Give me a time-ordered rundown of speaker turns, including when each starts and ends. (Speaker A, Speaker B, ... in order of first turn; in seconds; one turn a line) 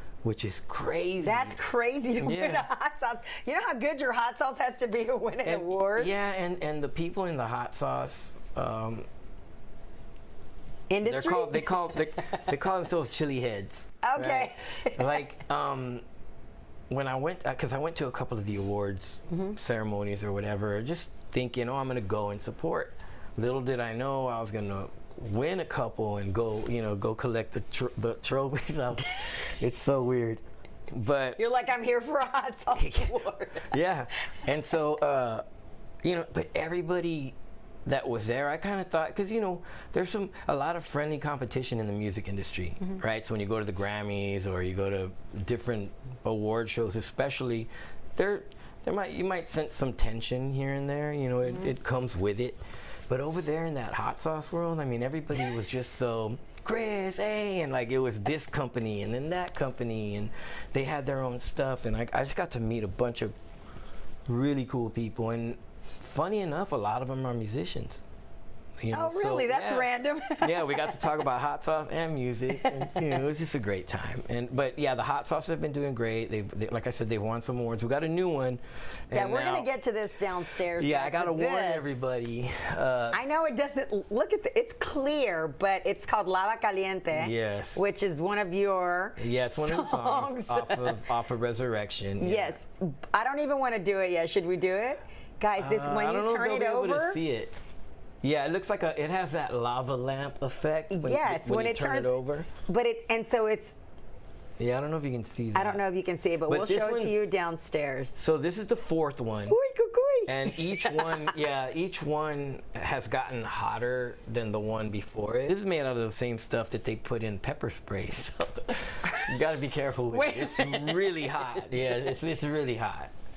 Speaker A: 0.2-1.6
Speaker B: 1.2-6.1
Speaker A: 2.2-2.6
Speaker A: 5.4-9.1
Speaker B: 10.9-12.5
Speaker A: 11.0-16.0
Speaker B: 14.0-15.2
Speaker A: 16.9-31.4
Speaker B: 31.4-33.8
Speaker A: 32.7-35.4
Speaker A: 36.0-63.3
Speaker A: 64.3-68.0
Speaker A: 68.8-79.7
Speaker B: 68.9-71.0
Speaker B: 72.5-73.2
Speaker B: 79.1-82.1
Speaker A: 80.7-83.2
Speaker B: 83.1-91.0
Speaker A: 87.1-87.9
Speaker A: 89.2-92.6
Speaker B: 92.2-97.2
Speaker A: 95.6-97.6
Speaker A: 98.2-102.5
Speaker B: 100.9-103.8
Speaker A: 104.6-105.8
Speaker B: 105.5-108.2
Speaker A: 106.5-107.2
Speaker A: 108.2-109.6
Speaker B: 109.5-111.3
Speaker A: 110.3-123.1
Speaker B: 120.1-122.0